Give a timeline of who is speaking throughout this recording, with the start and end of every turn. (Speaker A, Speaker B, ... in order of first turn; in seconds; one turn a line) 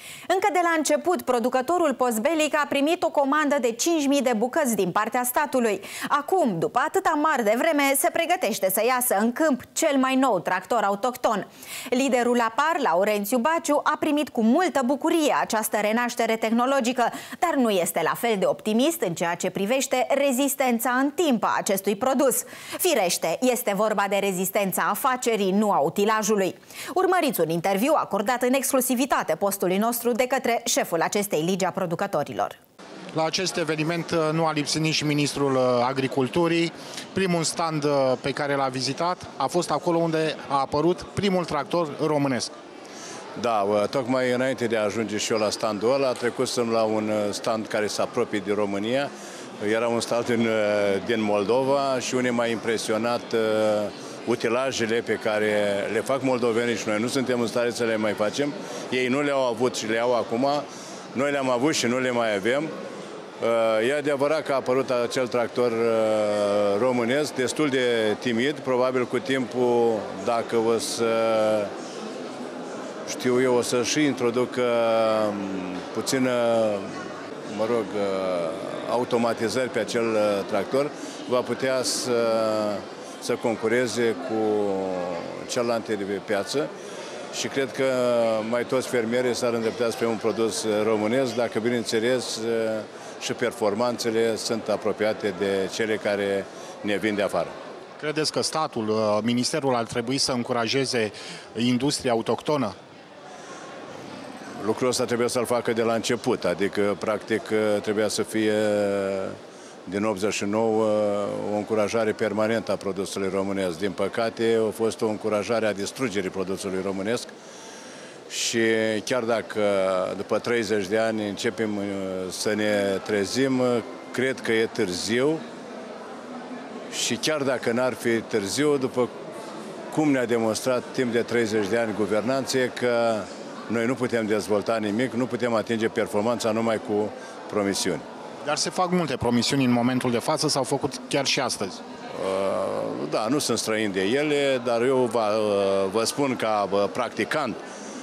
Speaker A: 0.3-32.6
Speaker B: 33.1-42.5
Speaker C: 43.4-62.7
Speaker C: 63.4-71.7
Speaker C: 73.1-76.9
Speaker C: 77.5-86.7
Speaker C: 87.3-97.5
Speaker B: 98.0-102.7
Speaker C: 104.6-117.3
Speaker C: 118.3-125.4
Speaker C: 126.9-129.1
Speaker C: 129.9-138.0
Speaker B: 138.4-141.8
Speaker C: 142.1-147.6